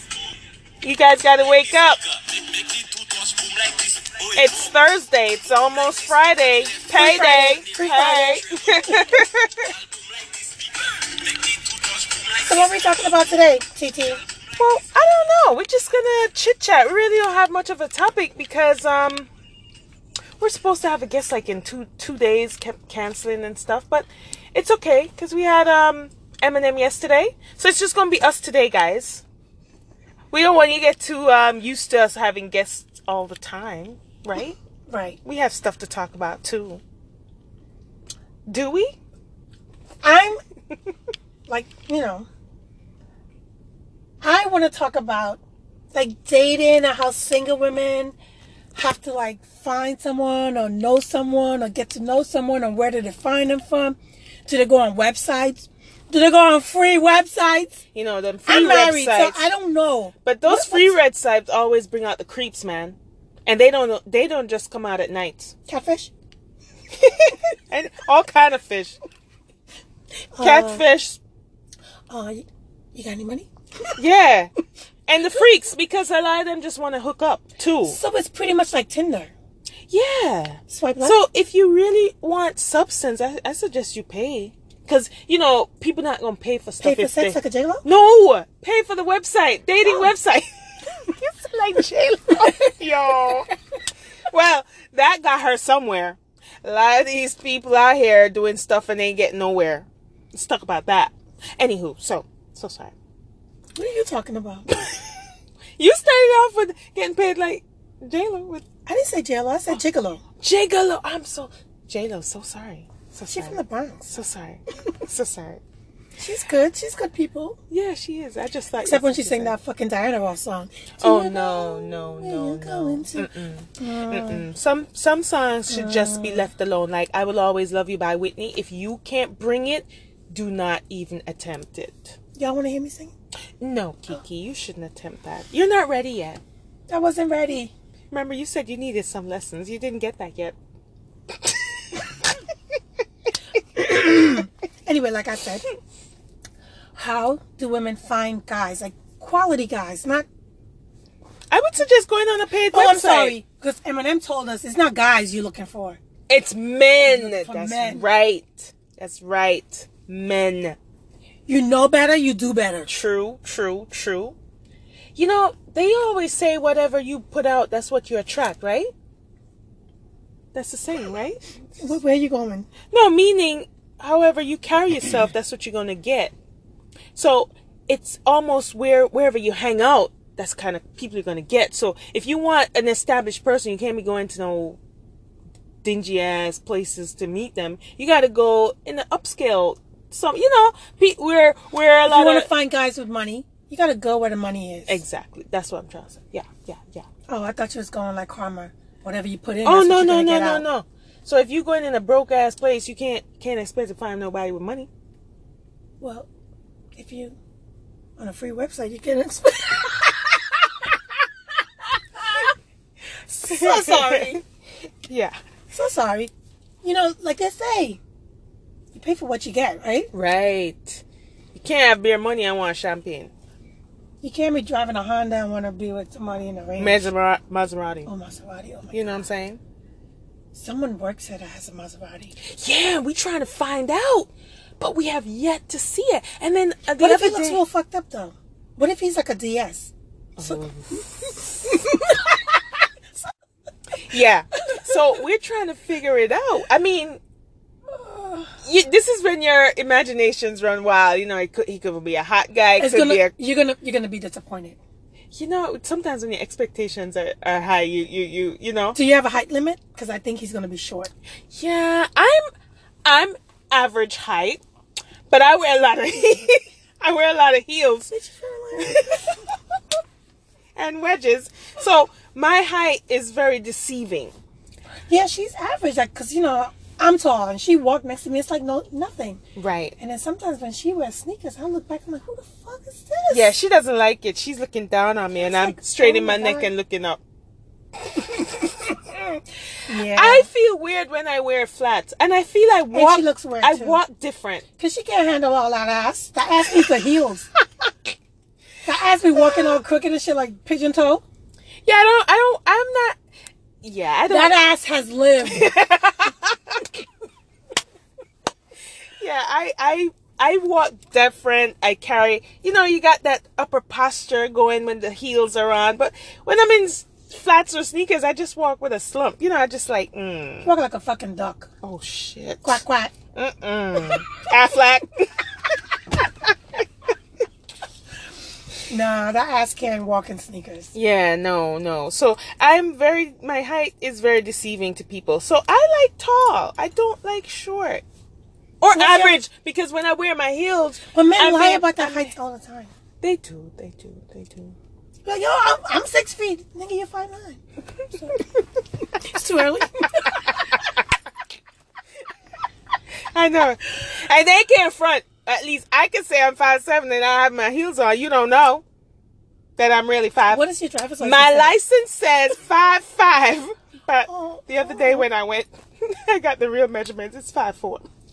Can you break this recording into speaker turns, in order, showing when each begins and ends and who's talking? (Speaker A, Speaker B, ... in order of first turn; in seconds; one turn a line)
Speaker A: 0.8-2.0
Speaker A: 4.2-9.7
Speaker B: 6.9-9.2
Speaker B: 12.3-14.2
Speaker A: 14.6-19.3
Speaker A: 20.4-29.2
Speaker A: 30.3-34.6
Speaker B: 34.9-35.2
Speaker A: 35.2-36.8
Speaker A: 38.5-38.9
Speaker B: 40.0-40.4
Speaker B: 41.5-42.3
Speaker B: 44.2-45.4
Speaker B: 45.9-48.1
Speaker B: 48.7-57.8
Speaker A: 57.9-59.5
Speaker B: 58.5-61.0
Speaker A: 60.2-65.5
Speaker B: 65.7-66.1
Speaker A: 67.7-69.0
Speaker B: 70.3-70.8
Speaker A: 70.4-71.2
Speaker B: 72.1-73.5
Speaker A: 74.0-74.5
Speaker A: 75.1-78.0
Speaker B: 77.8-79.3
Speaker A: 79.9-93.5
Speaker B: 80.7-81.2
Speaker B: 86.8-87.8
Speaker A: 94.3-102.9
Speaker B: 103.8-104.7
Speaker A: 105.8-108.6
Speaker B: 108.8-110.2
Speaker A: 110.4-115.6
Speaker B: 113.3-114.0
Speaker B: 116.2-117.6
Speaker A: 117.7-119.5
Speaker B: 118.8-124.5
Speaker A: 121.0-132.1
Speaker B: 125.7-126.5
Speaker B: 132.3-133.1
Speaker A: 133.6-136.4
Speaker B: 136.9-137.7
Speaker A: 138.1-140.6
Speaker B: 143.8-145.6
Speaker B: 146.9-150.2
Speaker A: 151.5-153.4
Speaker B: 152.7-156.0
Speaker A: 156.3-160.8
Speaker B: 157.0-158.0
Speaker B: 161.4-162.9
Speaker A: 162.9-164.3
Speaker A: 165.1-168.9
Speaker A: 170.5-171.4
Speaker B: 171.8-172.7
Speaker A: 172.9-176.3
Speaker A: 177.1-184.8
Speaker A: 185.8-192.5
Speaker B: 192.0-195.0
Speaker A: 194.9-197.1
Speaker B: 197.3-200.7
Speaker A: 199.6-204.9
Speaker B: 206.0-206.3
Speaker B: 206.9-207.4
Speaker B: 208.2-210.4
Speaker B: 213.3-214.4
Speaker A: 213.5-214.4
Speaker A: 215.1-215.4
Speaker B: 215.7-216.3
Speaker B: 216.8-218.0
Speaker B: 218.9-220.1
Speaker A: 220.1-221.0
Speaker A: 221.5-223.3
Speaker B: 224.2-227.0
Speaker A: 226.8-228.1
Speaker B: 228.1-229.2
Speaker A: 228.9-229.6
Speaker B: 230.5-232.3
Speaker A: 232.6-237.6
Speaker B: 237.0-240.6
Speaker A: 240.4-241.0
Speaker B: 241.5-242.7
Speaker A: 244.1-247.2
Speaker B: 244.7-244.9
Speaker B: 247.9-248.5
Speaker A: 248.6-253.3
Speaker B: 252.8-254.8
Speaker A: 255.3-259.0
Speaker B: 258.9-261.1
Speaker A: 261.5-262.5
Speaker A: 263.1-264.6
Speaker A: 265.3-268.1
Speaker B: 268.1-269.2
Speaker A: 268.8-269.2
Speaker A: 270.8-274.4
Speaker B: 275.1-279.4
Speaker A: 279.6-279.9
Speaker B: 280.0-283.5
Speaker A: 283.3-287.2
Speaker B: 285.4-286.7
Speaker B: 289.9-290.5
Speaker A: 290.1-294.6
Speaker B: 292.9-294.0
Speaker B: 294.8-297.5
Speaker B: 298.8-301.2
Speaker A: 301.8-303.1
Speaker A: 303.8-304.6
Speaker B: 304.3-305.7
Speaker A: 305.4-306.5
Speaker A: 309.2-320.7
Speaker B: 320.6-321.7
Speaker A: 321.8-322.8
Speaker B: 322.6-323.1
Speaker A: 323.3-325.4
Speaker B: 328.9-330.9
Speaker A: 330.9-338.0
Speaker A: 338.8-342.3
Speaker B: 338.9-339.4
Speaker B: 341.1-342.9
Speaker A: 343.2-344.8
Speaker B: 345.2-347.6
Speaker B: 348.1-348.4
Speaker B: 349.2-350.6
Speaker A: 353.3-358.8
Speaker A: 359.8-360.6
Speaker B: 360.5-361.8
Speaker A: 361.2-368.0
Speaker B: 364.2-365.3